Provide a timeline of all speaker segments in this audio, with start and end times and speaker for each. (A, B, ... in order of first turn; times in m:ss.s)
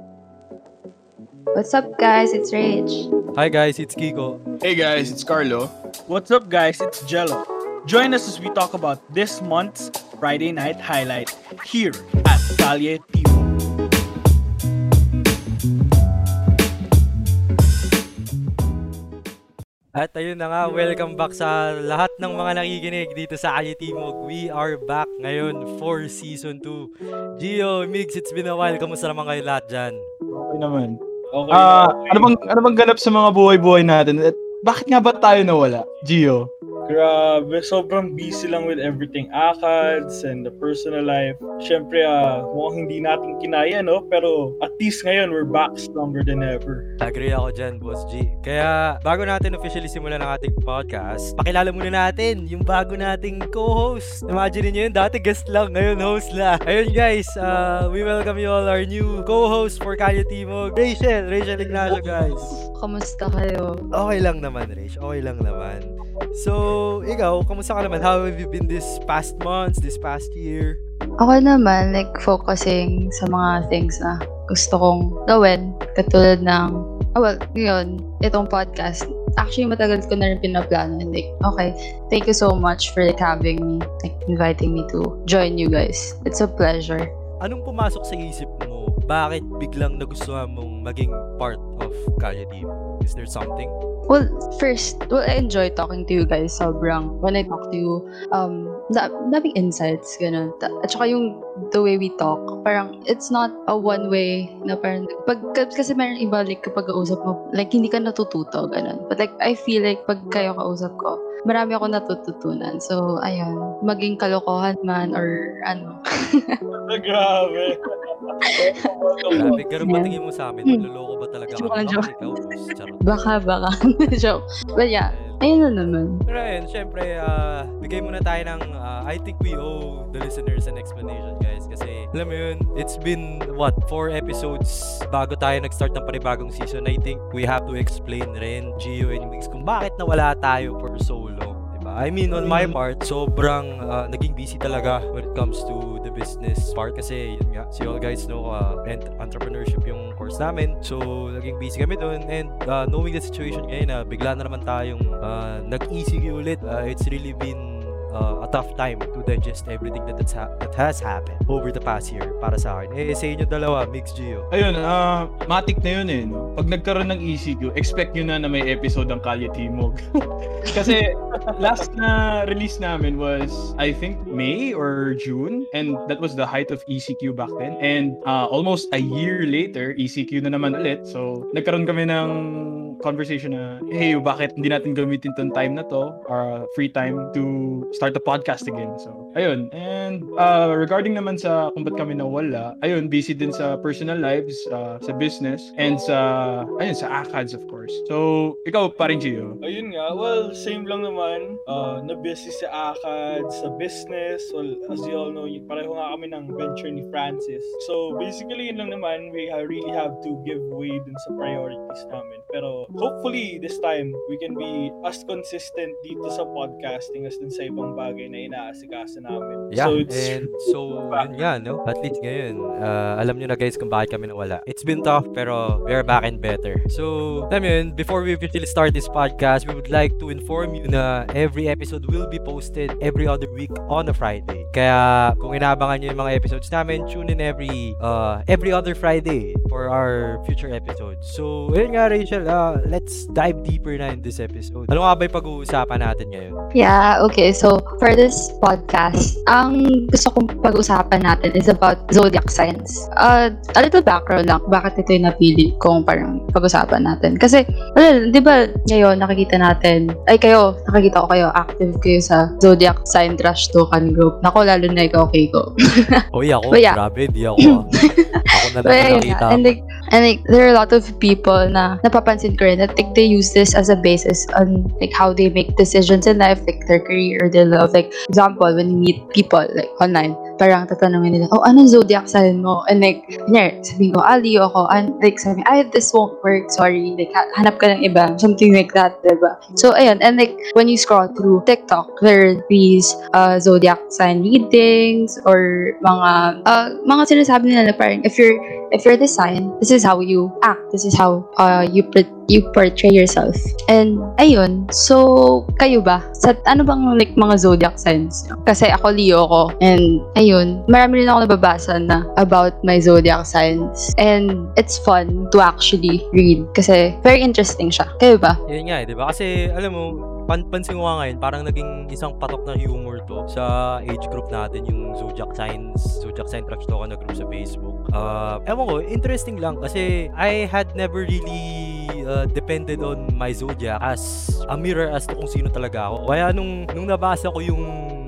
0:01.6-0:03.1 A
0:03.4-0:04.4 B
0:04.6-0:05.7 C
0:06.1-0:13.5 D
0:20.0-0:26.9 B
0:27.4-0:30.0 B
0:30.3-0:31.0 C
0:31.3-0:32.3 D
0:31.5-0:36.5 C
0:36.9-0:46.8 D
0:47.0-1:02.6 B
1:01.6-1:02.6 D
1:02.7-1:03.8 A
1:03.9-1:10.8 B
1:11.2-1:27.1 A
1:27.4-1:33.7 B
1:34.1-1:56.6 A
1:56.9-1:59.6 D
1:59.3-2:00.2 A
1:59.4-2:03.3 B
2:01.5-2:02.1 A
2:03.0-2:06.2 A
2:05.1-2:05.4 B
2:06.3-2:44.5 B
2:44.5-2:50.0 C
2:50.6-3:19.6 C
2:51.5-2:51.8 D
3:19.6-3:41.4 D
3:39.7-4:06.6 B
4:06.8-4:26.2 A
4:26.3-4:27.8 B
4:26.7-4:27.0 A
4:27.7-5:18.6 A
4:28.5-4:29.8 B
5:18.7-5:37.9 B